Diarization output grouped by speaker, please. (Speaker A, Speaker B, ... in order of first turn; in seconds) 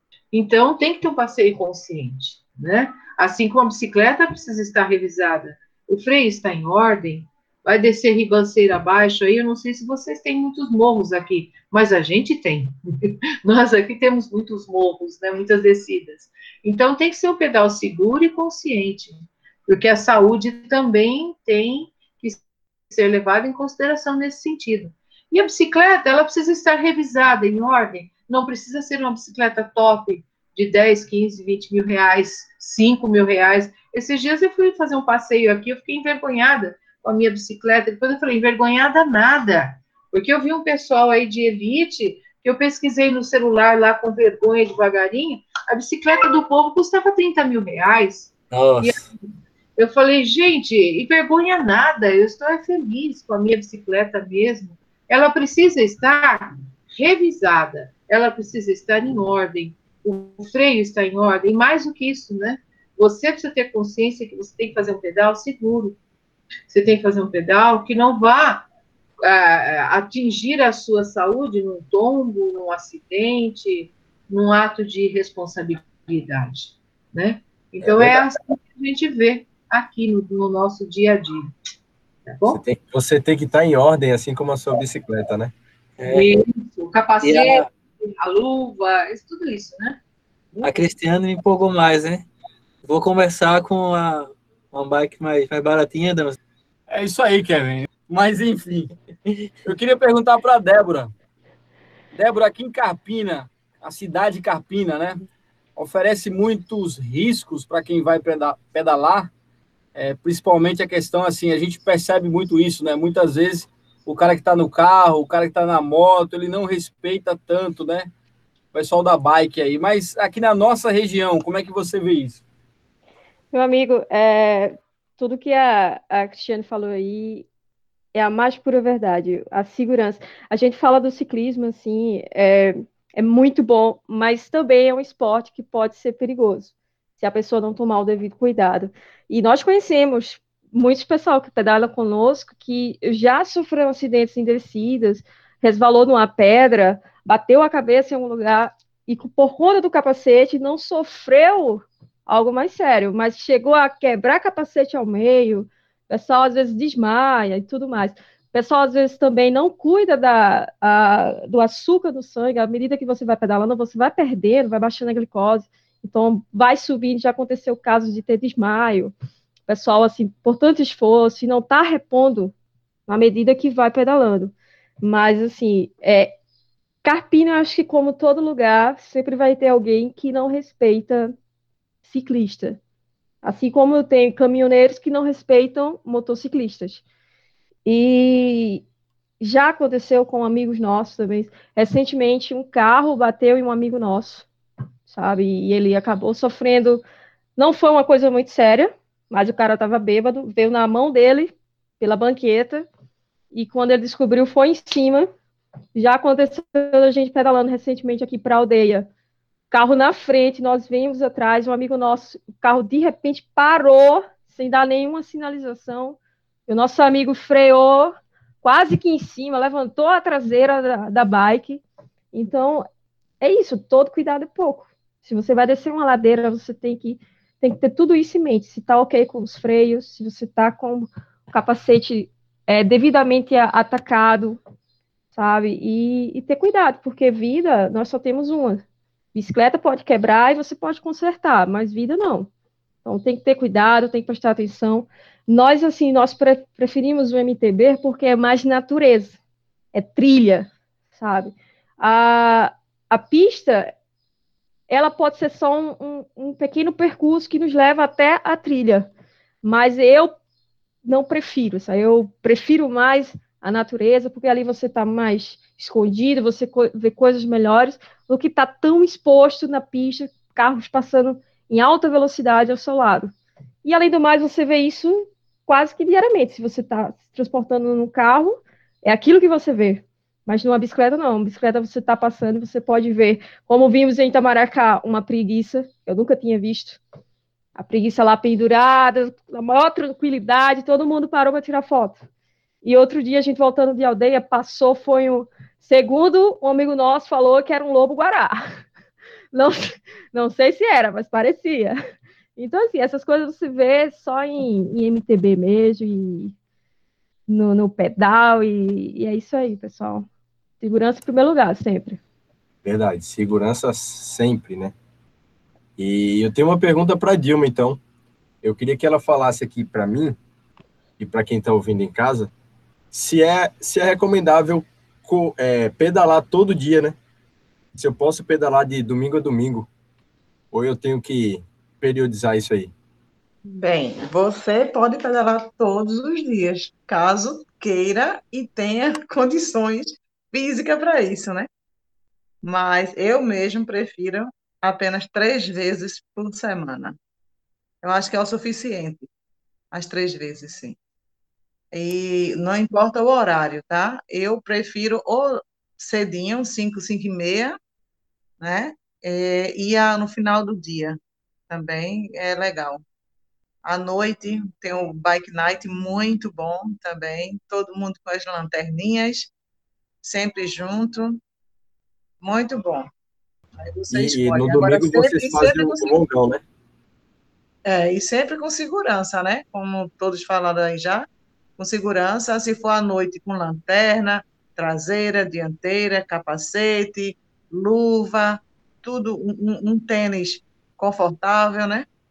Speaker A: 0.3-49.1, 49.8-66.0, 66.7-68.7, 69.2-81.5, 82.3-82.6, 86.0-90.0
Speaker B: 48.5-49.0, 86.0-86.3, 87.2-87.7, 90.6-92.3, 92.8-96.4
Speaker C: 77.8-78.2, 82.5-85.5, 312.8-314.9, 316.0-318.0, 318.6-320.4, 321.2-322.5, 323.1-327.2, 327.9-329.9, 330.7-332.9, 374.1-376.6
Speaker D: 96.9-98.9, 99.7-101.1, 102.1-105.2, 105.8-109.3, 110.0-118.1, 118.7-122.4
Speaker E: 123.5-127.5, 128.1-169.1, 169.7-172.5, 173.1-176.3, 177.0-181.3, 182.1-182.8, 183.4-187.0, 187.9-188.8, 189.4-194.5, 195.1-197.0, 197.6-202.9, 203.5-205.3, 205.9-209.1, 209.7-222.9, 223.4-234.6, 235.3-238.8, 239.3-242.5, 243.1-249.4, 249.9-253.9, 254.9-259.1, 259.6-260.3, 261.0-273.3, 273.8-287.0, 287.8-292.2, 292.8-298.6, 299.5-302.0, 302.6-306.5, 307.5-310.3, 310.8-312.2
Speaker F: 333.7-341.7, 342.6-347.2, 348.0-349.3, 349.9-351.0, 351.9-357.8, 358.6-361.2, 361.7-363.0, 363.9-369.5, 370.2-371.4, 372.4-373.1, 373.8-376.1, 377.9-381.3, 381.8-392.1